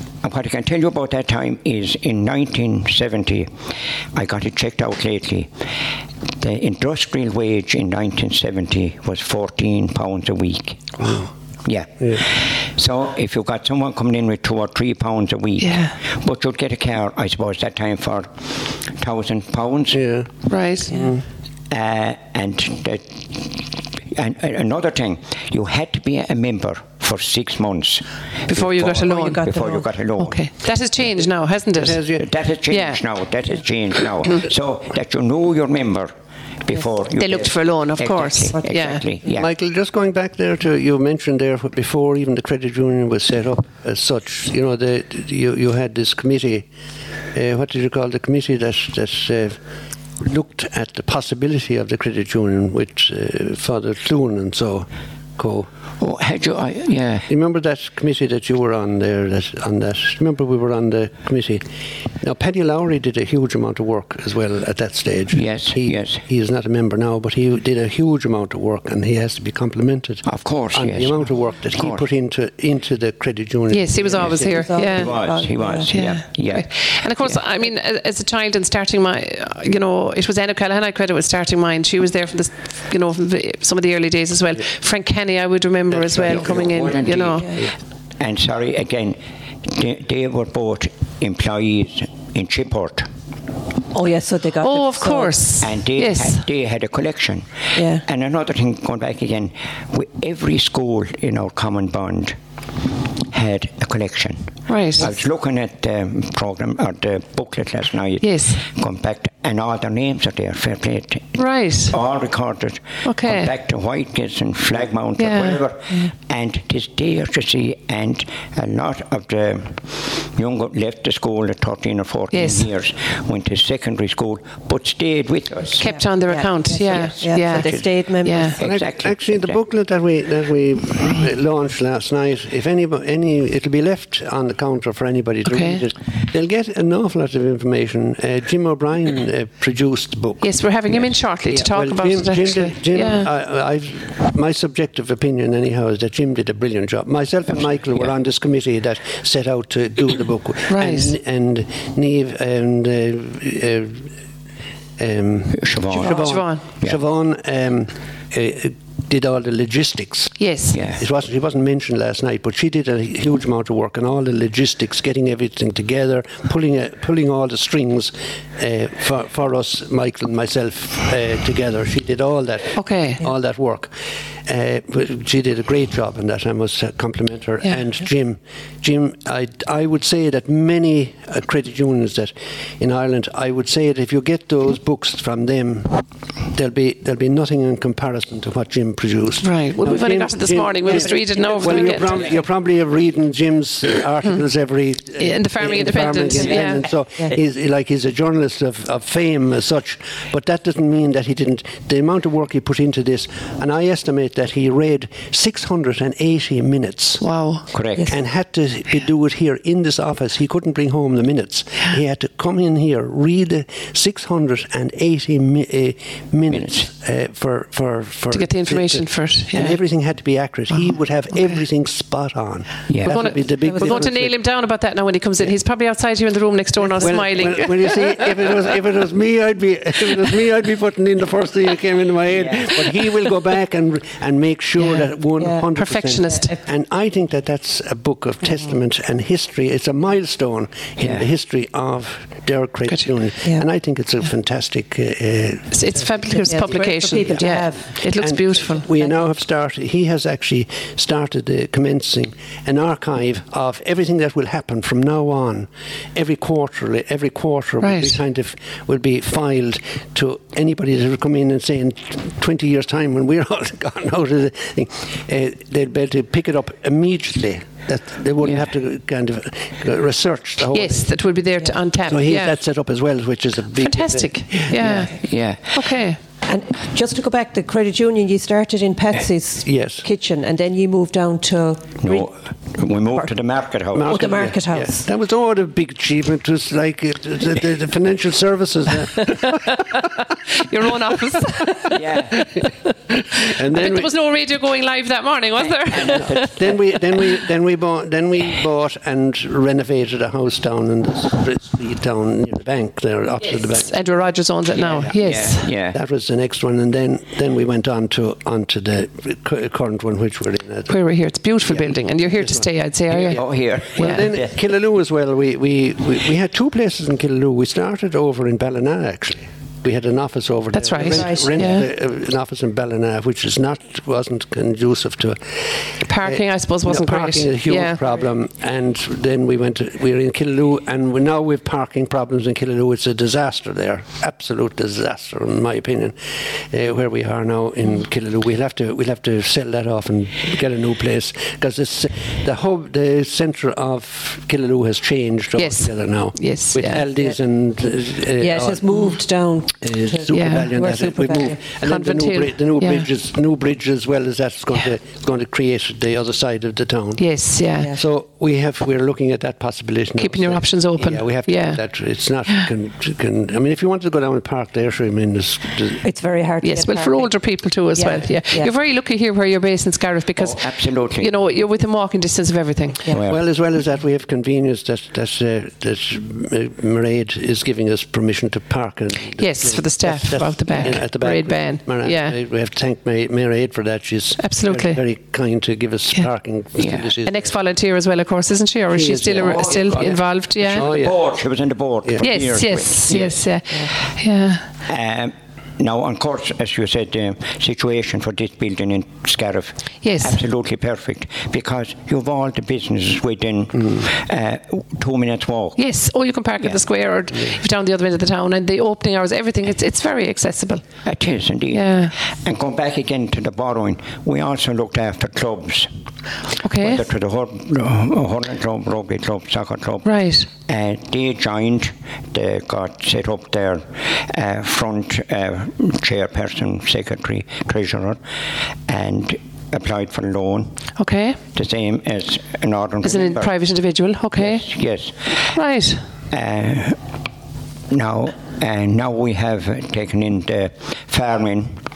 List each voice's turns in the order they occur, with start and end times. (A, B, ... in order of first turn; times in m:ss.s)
0:00.2-0:03.5 A
0:04.1-0:05.5 A
0:06.4-0:11.1 A
0:11.0-0:11.3 B
0:11.6-0:20.0 A
0:15.6-0:15.9 C
0:19.9-0:20.3 B
0:20.5-0:21.0 C
0:20.9-0:21.2 B
0:21.7-0:30.4 A
0:28.5-0:29.4 C
0:28.9-0:29.9 D
0:30.2-0:32.0 C
0:31.7-0:32.2 B
0:32.2-0:36.1 A
0:32.7-0:33.0 C
0:36.6-0:39.5 A
0:37.2-0:39.0 C
0:39.2-0:46.7 B
0:47.3-0:49.6 B
0:50.2-0:55.7 B
0:56.0-0:57.3 A
0:57.3-1:01.6 B
1:02.2-1:14.7 B
1:05.3-1:06.2 A
1:10.2-1:12.0 A
1:13.7-1:15.2 C
1:14.3-1:15.9 D
1:14.9-1:16.7 A
1:15.9-1:27.5 C
1:25.9-1:26.9 B
1:26.2-1:33.1 A
1:33.9-1:35.4 D
1:34.6-1:36.4 C
1:35.6-1:42.4 A
1:37.7-1:38.0 D
1:43.3-2:05.8 A
1:44.7-1:45.1 C
1:48.2-1:48.6 C
1:51.4-1:51.9 C
1:53.0-1:53.5 C
1:55.2-1:55.6 C
2:02.3-2:02.7 C
2:05.8-2:08.6 C
2:05.8-2:08.6 D
2:07.4-2:07.9 A
2:08.6-2:09.6 A
2:08.6-2:20.5 B
2:15.4-2:15.8 C
2:20.4-2:23.3 C
2:21.4-2:34.1 B
2:30.7-2:31.1 C
2:35.0-2:53.9 B
2:35.5-2:36.3 A
2:35.9-2:36.6 C
2:40.4-2:40.8 C
2:40.7-2:41.0 A
2:52.7-2:53.2 C
2:54.4-3:27.2 B
3:09.4-3:12.4 C
3:15.2-3:16.9 C
3:27.2-3:27.6 C
3:27.7-3:28.1 A
3:28.1-3:44.3 B
3:36.5-3:36.9 A
3:38.3-3:39.8 C
3:42.9-3:43.2 A
3:43.0-3:48.3 C
3:43.6-3:44.0 D
3:46.8-3:47.3 D
3:47.0-4:31.1 B
3:52.3-3:52.8 A
3:55.7-3:56.5 C
3:56.3-3:56.6 D
4:01.0-4:01.3 A
4:05.7-4:08.9 C
4:06.4-4:07.9 D
4:17.8-4:18.2 C
4:30.7-4:32.6 C
4:32.1-4:35.1 B
4:33.8-4:36.2 C
4:35.2-4:35.6 A
4:36.4-4:42.3 D
4:39.6-4:40.0 B
4:42.0-4:44.2 A
4:43.9-4:50.0 B
4:44.0-4:45.0 D
4:49.6-4:52.7 C
4:51.9-4:52.4 A
4:53.1-4:54.1 B
4:53.4-4:56.6 C
4:55.9-4:56.5 A
4:56.0-5:03.9 B
5:03.4-5:05.7 C
5:04.8-5:10.9 B
5:04.8-5:06.0 A
5:10.9-5:14.2 C
5:11.7-5:12.6 B
5:13.1-5:14.5 A
5:13.2-5:49.1 B
5:20.7-5:21.9 C
5:21.0-5:21.8 D
5:26.0-5:28.0 C
5:45.6-5:47.0 C
5:48.4-5:51.6 D
5:49.8-5:57.2 B
5:50.3-5:50.7 C
5:51.8-5:53.1 C
5:57.2-5:57.9 C
5:57.9-6:06.0 B
6:00.2-6:01.8 C
6:06.0-6:07.4 D
6:06.6-6:13.0 C
6:07.9-6:08.7 D
6:10.4-6:11.3 A
6:13.1-6:13.4 A
6:13.1-6:27.5 B
6:19.4-6:22.4 C
6:24.4-6:25.0 C
6:26.8-6:27.1 A
6:27.2-6:30.9 C
6:28.9-6:31.2 B
6:29.3-6:33.5 A
6:32.2-6:34.6 C
6:34.9-6:45.8 A
6:40.0-6:40.4 C
6:45.8-6:50.8 C
6:51.0-6:55.9 A
6:51.7-6:52.1 C
6:56.6-6:57.0 C
6:56.8-7:08.2 A
7:00.0-7:00.5 C
7:08.8-7:10.8 A
7:11.0-7:11.4 C
7:11.5-7:13.5 A
7:13.0-7:14.7 C
7:14.4-7:15.5 A
7:15.5-7:16.0 C
7:16.3-7:17.0 A
7:17.9-7:21.8 A